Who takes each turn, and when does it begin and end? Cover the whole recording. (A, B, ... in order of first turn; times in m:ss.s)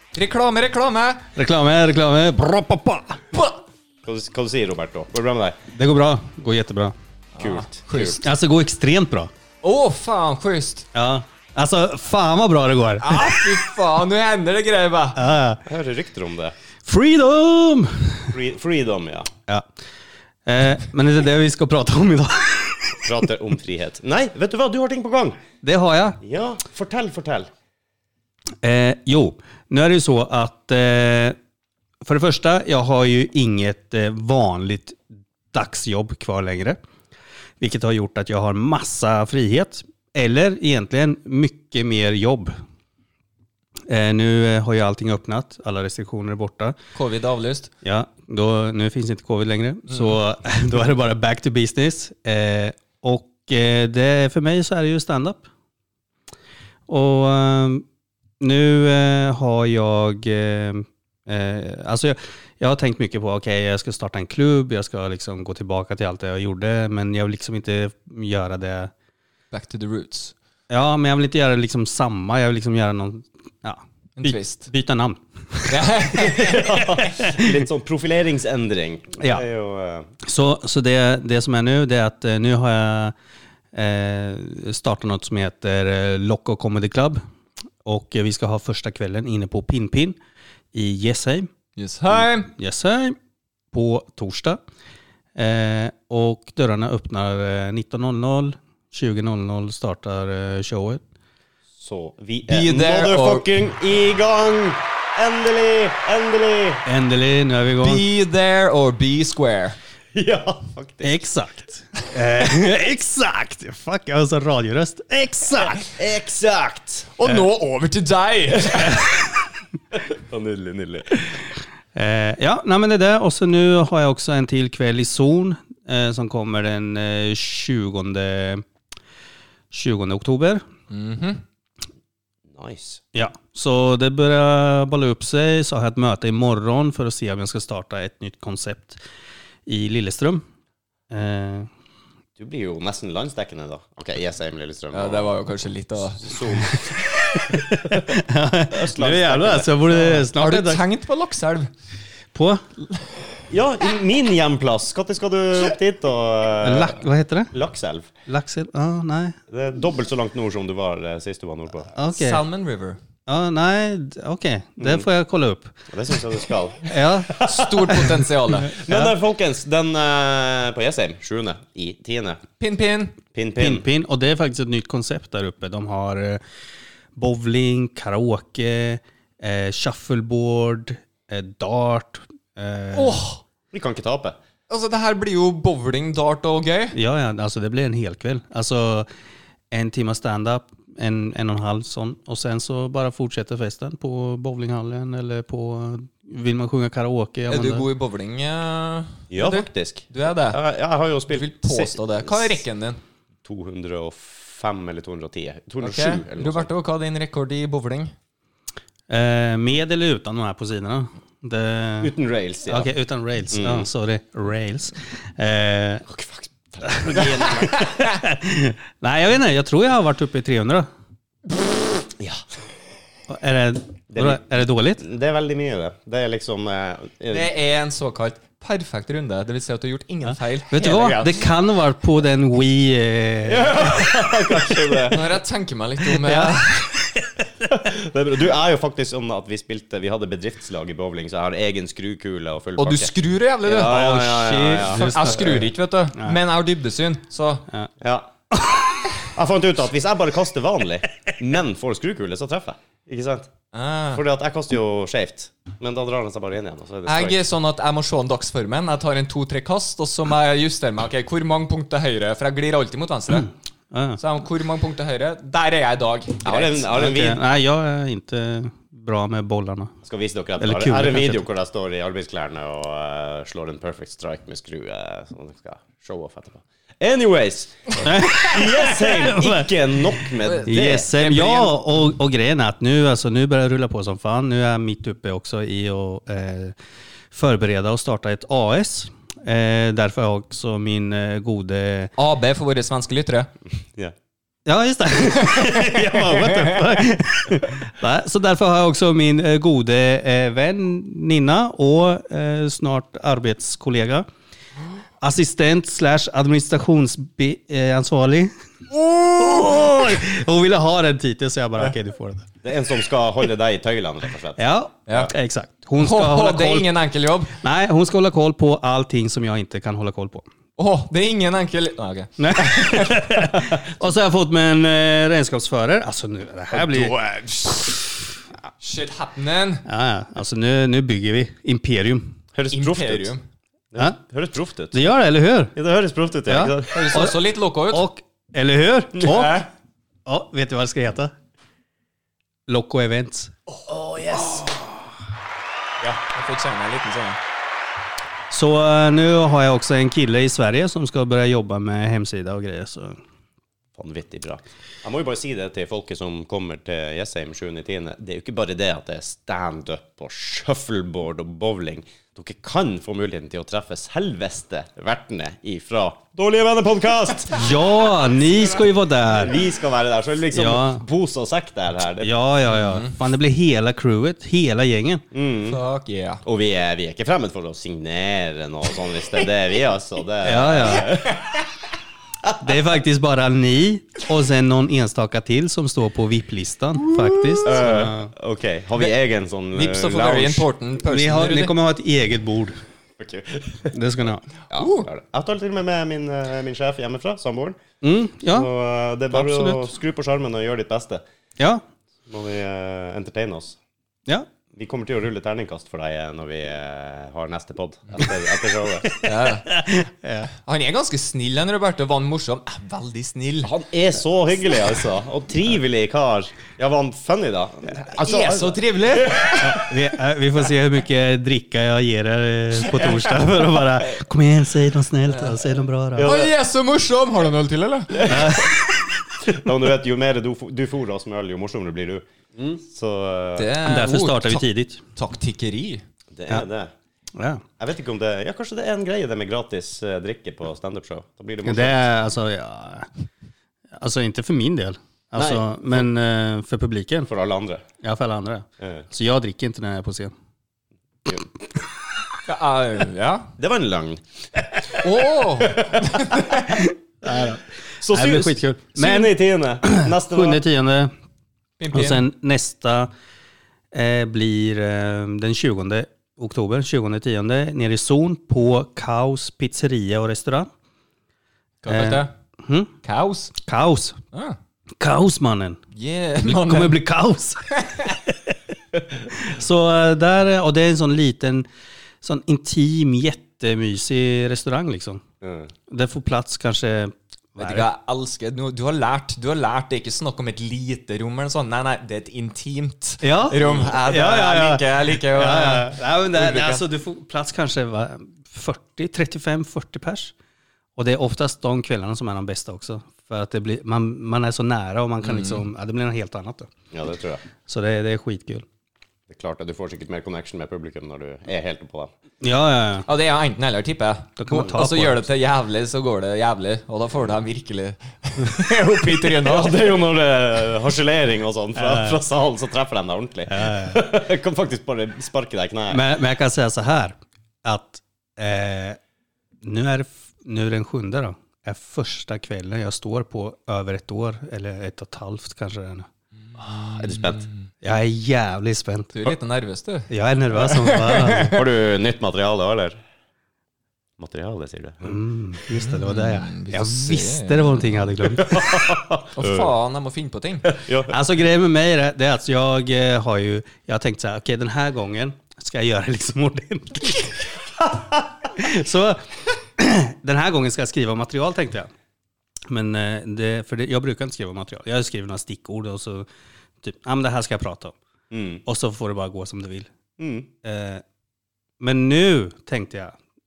0:00.2-0:01.2 A
0:01.4-0:03.2 B
0:04.0-0:05.6 C
0:05.7-0:07.0 B
0:07.4-0:08.3 A
0:07.4-0:08.2 C
0:08.2-0:09.3 B
0:09.6-0:10.9 A
0:10.9-0:13.6 B
0:13.0-0:15.2 A
0:15.2-0:15.6 B
0:15.6-0:16.6 C
0:16.8-0:18.3 B
0:18.3-0:19.3 C
0:20.5-0:23.3 B
0:23.1-0:25.4 C
0:25.6-0:26.2 B
0:26.2-0:27.5 C
0:28.6-0:31.4 B
0:32.0-0:35.0 B
0:35.5-0:36.8 B
0:37.6-0:42.5 B
0:43.9-0:46.8 B
0:47.0-0:47.7 A
0:47.8-0:55.5 B
0:49.9-0:50.2 A
0:56.9-0:57.8 B
0:58.4-1:08.9 B
1:09.5-1:10.3 A
1:10.7-1:15.9 B
1:14.2-1:14.7 A
1:15.7-1:17.0 A
1:16.2-1:20.1 C
1:17.2-1:17.5 B
1:19.2-1:19.4 B
1:20.2-1:23.1 B
1:23.7-1:27.2 B
1:27.8-1:30.2 B
1:30.7-1:31.5 B
1:31.8-1:32.5 A
1:32.2-1:33.2 B
1:33.7-1:34.6 B
1:35.4-1:41.0 B
1:41.8-1:46.8 C
1:42.5-1:43.5 A
1:46.8-1:48.0 B
1:47.8-1:49.8 A
1:50.1-1:51.3 C
1:51.0-1:55.8 B
1:55.9-1:57.1 C
1:57.2-1:59.2 A
2:00.2-2:01.2 C
2:02.0-2:08.6 B
2:09.7-2:10.6 B
2:10.9-2:11.4 A
2:12.5-2:13.0 C
2:13.1-2:19.0 B
2:19.7-2:20.4 B
2:21.1-2:21.7 B
2:22.4-2:25.4 C
2:24.9-2:26.5 A
2:26.2-2:26.9 C
2:26.7-2:30.8 B
2:28.7-2:29.9 C
2:30.0-2:31.7 A
2:32.3-2:32.7 B
2:33.5-2:37.0 C
2:36.6-2:37.5 B
2:37.5-2:38.1 C
2:38.3-2:39.4 B
2:39.5-2:41.9 C
2:41.9-2:42.5 B
2:42.1-2:43.0 A
2:43.3-2:45.8 B
2:44.8-2:45.0 C
2:45.9-2:52.4 C
2:46.8-2:47.5 B
2:47.4-2:48.8 A
2:48.7-2:49.1 B
2:52.6-2:53.1 A
2:53.3-2:53.8 C
2:53.6-2:56.4 B
2:57.2-3:03.2 B
3:03.0-3:03.4 A
3:03.7-3:04.4 C
3:04.7-3:07.0 A
3:06.9-3:09.1 B
3:09.7-3:17.9 B
3:17.5-3:20.6 A
3:19.3-3:22.6 C
3:21.3-3:23.0 A
3:23.4-3:26.7 C
3:25.8-3:28.1 A
3:29.1-3:32.1 B
3:32.0-3:32.9 C
3:32.7-3:36.1 B
3:33.5-3:33.9 C
3:36.1-3:37.8 C
3:36.8-3:40.9 B
3:43.3-3:45.0 B
3:44.1-3:47.5 C
3:47.3-3:51.1 A
3:50.7-3:53.9 B
3:50.8-3:51.4 C
3:53.5-3:55.4 C
3:55.1-3:56.9 A
3:56.2-3:57.5 B
3:57.7-4:05.6 C
4:02.8-4:07.6 A
4:03.8-4:06.4 B
4:08.0-4:08.3 C
4:08.5-4:09.1 B
4:09.4-4:13.5 C
4:13.7-4:14.2 A
4:14.1-4:17.4 C
4:17.1-4:23.5 A
4:23.3-4:24.2 B
4:24.2-4:26.9 A
4:26.4-4:27.4 C
4:26.9-4:29.9 B
4:30.0-4:41.1 C
4:30.6-4:31.4 B
4:38.0-4:46.8 B
4:40.4-4:41.8 A
4:47.3-4:52.1 B
4:52.2-4:53.5 A
4:54.7-5:04.2 B
4:56.0-4:56.5 A
5:05.2-5:12.5 B
5:12.6-5:15.3 C
5:14.6-5:16.9 B
5:15.1-5:15.3 A
5:16.0-5:17.6 A
5:17.6-5:20.5 B
5:20.8-5:23.1 A
5:22.4-5:27.1 B
5:26.7-5:28.0 A
5:28.8-5:29.8 A
5:29.9-5:32.4 B
5:32.5-5:33.3 C
5:32.7-5:33.4 A
5:33.9-5:35.0 C
5:34.9-5:35.7 B
5:35.8-5:37.0 C
5:36.5-5:39.7 B
5:36.9-5:38.1 A
5:39.2-5:39.7 A
5:40.3-5:41.3 B
5:42.7-5:43.5 B
5:43.9-5:44.4 C
5:46.0-5:47.4 A
5:48.5-5:53.2 B
5:54.0-6:07.6 C
6:07.5-6:09.6 B
6:09.3-6:12.3 C
6:10.5-6:11.0 B
6:12.2-6:15.2 B
6:12.7-6:13.1 A
6:15.3-6:15.8 C
6:15.7-6:16.4 A
6:16.4-6:21.4 C
6:20.4-6:21.2 B
6:21.0-6:21.4 A
6:22.6-6:28.3 B
6:27.1-6:28.0 A
6:27.6-6:30.7 C
6:29.7-6:31.7 A
6:31.0-6:32.8 B
6:33.2-6:34.0 C
6:33.9-6:34.5 B
6:34.7-6:37.8 C
6:34.8-6:35.1 A
6:38.0-6:38.7 B
6:38.5-6:41.2 C
6:39.3-6:39.9 B
6:42.3-6:43.8 C
6:44.7-6:49.2 C
6:49.1-6:50.5 B
6:49.2-6:49.7 A
6:50.6-6:53.7 A
6:53.6-6:59.4 C
6:58.1-6:59.8 A
6:59.6-7:06.4 B
7:06.2-7:06.5 C
7:06.2-7:08.8 A
7:08.2-7:08.6 C
7:08.3-7:09.1 B
7:09.4-7:13.7 C
7:13.6-7:14.6 A
7:13.8-7:15.0 B
7:15.2-7:16.0 A
7:16.3-7:16.9 C
7:17.4-7:17.6 B
7:17.8-7:22.1 C
7:21.6-7:23.1 B
7:24.0-7:27.3 B
7:25.4-7:26.1 C
7:27.3-7:27.8 C
7:28.0-7:30.3 B
7:32.5-7:33.5 A
7:33.6-7:34.2 C
7:35.0-7:36.6 A
7:35.6-7:36.2 C
7:36.7-7:41.1 B
7:38.0-7:40.6 C
7:41.8-7:42.3 A
7:41.9-7:43.1 B
7:43.9-7:50.7 B
7:51.8-7:52.3 A
7:51.9-7:52.9 B
7:53.0-7:53.5 A
7:53.6-7:54.2 B
7:55.0-7:55.8 B
7:56.0-7:57.0 A
7:56.4-7:58.6 B
7:59.2-8:01.7 B
8:02.2-8:05.2 B
8:05.4-8:05.7 C
8:05.9-8:07.9 B
8:07.6-8:16.8 A
8:13.2-8:20.3 B
8:13.6-8:14.0 C
8:21.0-8:26.7 B
8:25.2-8:25.6 A
8:26.9-8:27.4 C
8:27.7-8:28.6 B
8:29.3-8:32.1 C
8:32.4-8:33.1 B
8:33.1-8:39.9 A
8:34.4-8:35.3 B
8:39.4-8:46.0 C
8:41.8-8:42.2 B
8:43.5-8:44.0 B
8:45.9-8:49.0 B
8:49.6-8:56.1 B
8:56.6-8:57.4 A
8:57.0-8:57.5 C
8:57.8-8:59.2 B
8:59.1-9:00.1 A
9:00.1-9:01.6 B
9:00.7-9:01.6 A
9:01.3-9:03.0 C
9:04.2-9:05.2 C
9:05.0-9:08.9 B
9:05.7-9:07.9 A
9:08.5-9:09.7 C
9:09.3-9:10.7 A
9:10.6-9:11.1 C
9:11.1-9:21.9 B
9:22.7-9:26.3 B
9:26.8-9:28.0 B
9:28.3-9:28.6 C
9:28.6-9:29.9 B
9:30.2-9:30.5 C
9:30.6-9:31.0 B
9:31.8-9:33.2 B